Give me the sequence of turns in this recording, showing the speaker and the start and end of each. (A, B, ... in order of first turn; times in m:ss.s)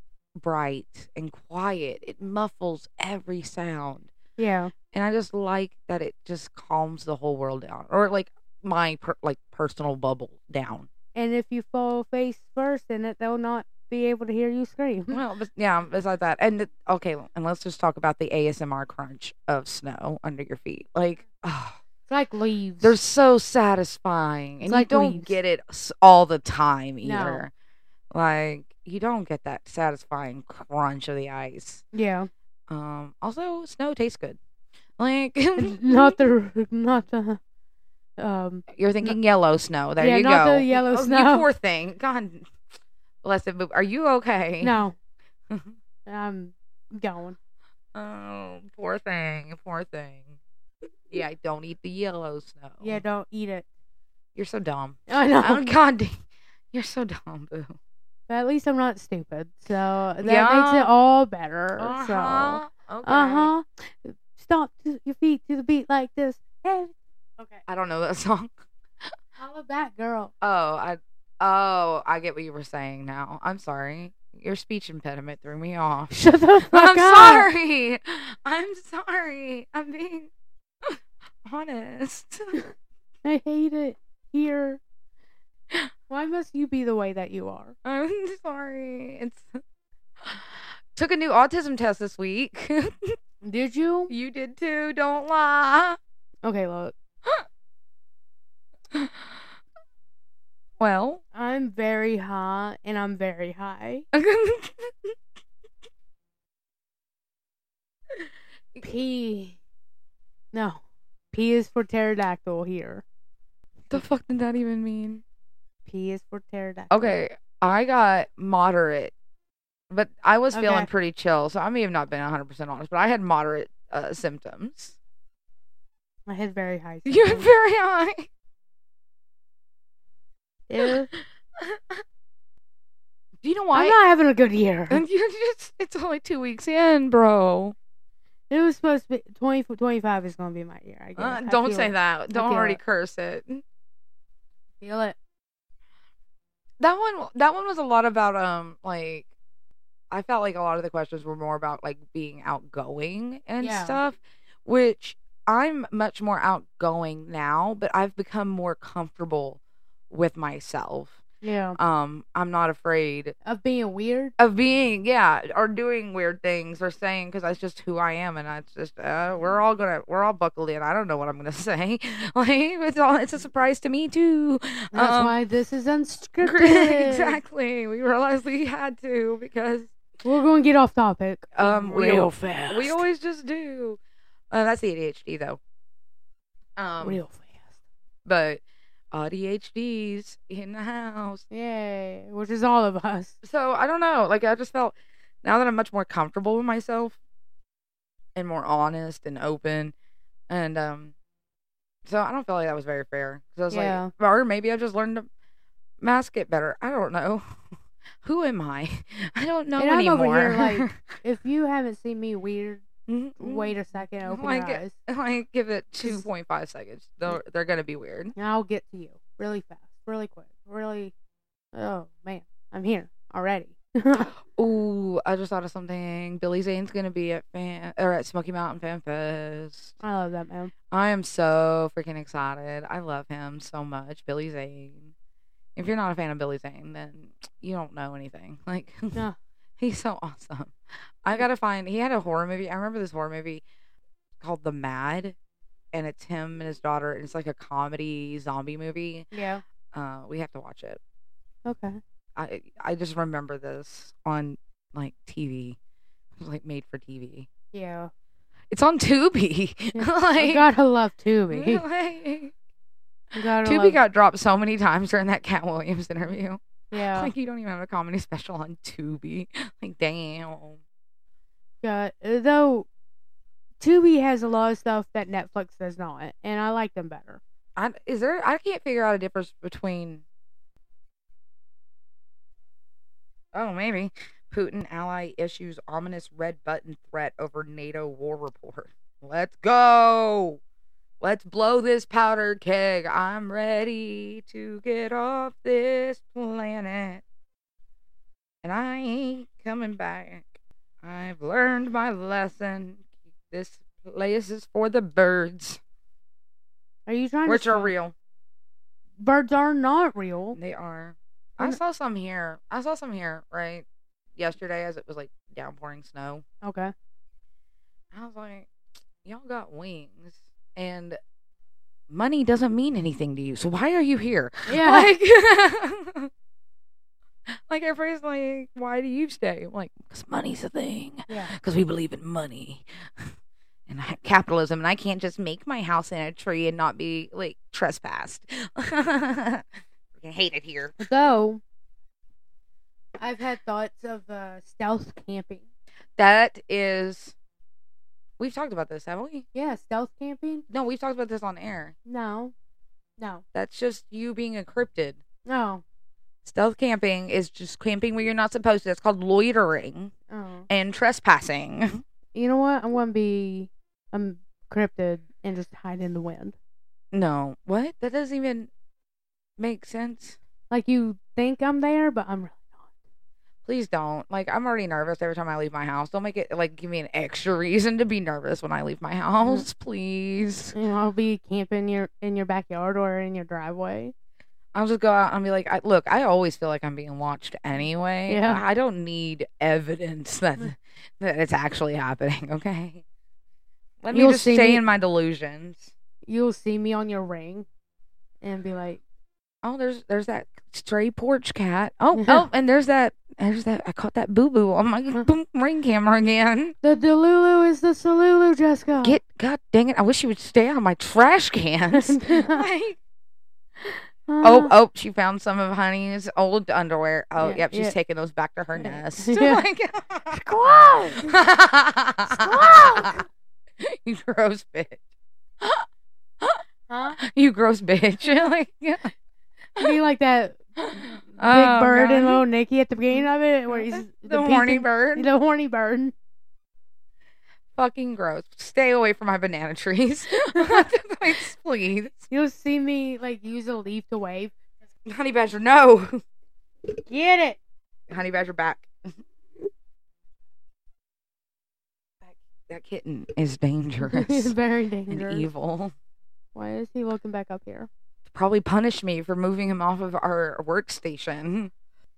0:00.4-0:04.1 A
0:04.4-0:04.7 B
0:04.9-0:10.9 A
0:11.1-0:15.2 B
0:15.1-0:21.8 A
0:22.1-0:23.0 B
0:22.8-0:27.5 A
0:24.6-0:25.3 B
0:27.0-0:27.4 B
0:28.1-0:31.8 A
0:31.9-0:32.3 B
0:32.7-0:34.4 A
0:35.0-0:36.2 A
0:35.6-0:37.4 B
0:38.2-0:39.2 B
0:38.7-0:42.5 A
0:40.0-0:41.5 B
0:43.2-0:44.8 A
0:44.6-0:44.9 B
0:46.0-0:47.4 B
0:47.9-0:50.4 A
0:51.1-0:53.0 A
0:52.8-0:53.6 B
0:54.3-0:56.2 A
0:55.1-0:55.7 B
0:56.7-0:57.8 A
0:58.3-1:07.6 B
1:00.2-1:00.9 A
1:01.8-1:03.5 A
1:07.7-1:08.5 A
1:09.4-1:10.3 B
1:10.4-1:16.1 A
1:16.1-1:17.5 B
1:16.7-1:20.3 A
1:20.8-1:22.6 A
1:23.2-1:24.8 B
1:26.1-1:27.7 B
1:27.8-1:29.6 A
1:30.2-1:33.2 A
1:33.4-1:34.1 B
1:34.1-1:36.0 A
1:36.4-1:36.9 B
1:38.9-1:39.4 A
1:40.8-1:41.2 A
1:41.3-1:44.0 B
1:44.1-1:45.1 A
1:48.2-1:48.8 A
1:48.8-1:49.6 B
1:50.5-1:50.8 B
1:51.3-1:53.0 B
1:53.9-1:55.2 A
1:55.9-1:57.2 B
1:56.9-1:59.1 A
1:59.9-2:05.0 A
2:00.5-2:00.9 B
2:06.3-2:07.5 B
2:07.0-2:08.3 A
2:10.7-2:11.1 B
2:10.8-2:12.0 A
2:13.4-2:14.0 A
2:13.7-2:15.0 B
2:14.9-2:17.7 A
2:18.5-2:22.8 B
2:21.2-2:23.6 A
2:24.8-2:25.2 B
2:26.8-2:29.3 A
2:30.1-2:41.2 A
2:33.6-2:34.0 B
2:41.4-2:41.8 B
2:41.8-2:43.3 A
2:43.4-2:44.3 B
2:44.4-2:55.3 A
2:54.9-2:57.4 B
2:56.4-2:59.9 A
3:00.2-3:03.0 B
3:01.5-3:04.0 A
3:04.5-3:05.6 A
3:06.8-3:07.2 A
3:07.0-3:07.7 B
3:08.2-3:11.4 A
3:11.5-3:13.4 B
3:13.4-3:17.2 A
3:18.3-3:19.9 A
3:20.5-3:21.1 A
3:22.0-3:25.3 A
3:23.7-3:24.1 B
3:26.0-3:27.4 A
3:28.2-3:30.9 A
3:29.8-3:32.8 B
3:33.1-3:38.3 A
3:33.4-3:34.9 B
3:38.4-3:41.1 B
3:41.7-3:44.3 B
3:44.3-3:49.9 A
3:50.0-3:50.7 B
3:50.9-3:55.1 A
3:55.8-3:59.2 A
3:59.8-4:03.6 A
4:04.4-4:05.3 A
4:05.9-4:09.3 A
4:09.3-4:09.6 B
4:09.9-4:11.0 A
4:11.6-4:12.0 B
4:12.4-4:15.8 A
4:16.4-4:17.5 A
4:17.7-4:18.1 B
4:18.7-4:20.7 A
4:19.9-4:21.8 B
4:21.5-4:22.5 A
4:23.3-4:24.0 B
4:23.6-4:30.8 A
4:26.9-4:27.3 B
4:31.8-4:32.9 B
4:33.8-4:37.4 B
4:37.8-4:40.2 A
4:43.5-4:50.6 A
4:51.2-4:57.2 A
4:58.6-5:00.5 A
5:01.0-5:05.8 A
5:07.1-5:07.9 B
5:07.4-5:08.1 A
5:09.2-5:10.6 B
5:10.5-5:13.8 A
5:14.4-5:16.4 A
5:16.6-5:16.9 B
5:18.1-5:18.7 A
5:19.2-5:21.2 A
5:22.1-5:26.3 A
5:24.7-5:25.1 B
5:27.5-5:33.3 A
5:31.3-5:31.5 B
5:33.9-5:40.9 A
5:41.0-5:41.6 B
5:43.2-5:45.6 B
5:46.2-5:47.3 A
5:48.4-5:49.4 A
5:49.5-5:50.6 B
5:50.7-5:51.9 A
5:52.0-5:52.5 B
5:53.2-5:53.4 B
5:53.5-5:55.2 A
5:55.4-5:55.8 B
5:56.4-6:00.1 A
6:00.3-6:00.7 B
6:00.7-6:02.0 A
6:02.3-6:06.6 B
6:07.1-6:08.7 A
6:09.6-6:10.4 A
6:10.7-6:12.9 B
6:13.6-6:20.8 A
6:20.7-6:24.1 B
6:24.7-6:33.0 A
6:28.3-6:28.6 B
6:34.0-6:35.9 A
6:34.1-6:34.8 B
6:36.2-6:37.7 B
6:38.4-6:39.0 B
6:39.6-6:46.7 A
6:42.1-6:42.4 B
6:46.8-6:49.2 B
6:49.0-6:53.0 A
6:51.9-6:52.6 B
6:53.8-6:54.7 B
6:54.4-7:00.4 A
6:57.4-6:57.9 B
6:58.8-6:59.6 B
7:00.3-7:01.3 B
7:01.3-7:03.2 A
7:02.3-7:03.2 B
7:03.8-7:05.0 A
7:06.9-7:07.2 B
7:07.2-7:09.1 A
7:09.8-7:10.6 B
7:10.8-7:12.4 A
7:11.4-7:16.1 B
7:13.1-7:15.3 A
7:17.7-7:22.3 A
7:20.5-7:20.8 B
7:22.3-7:24.5 B
7:25.0-7:26.2 A
7:27.1-7:27.6 B
7:28.1-7:28.9 A
7:32.7-7:34.5 A
7:34.0-7:35.5 B
7:35.1-7:35.9 A
7:36.5-7:37.9 B
7:38.3-7:41.7 A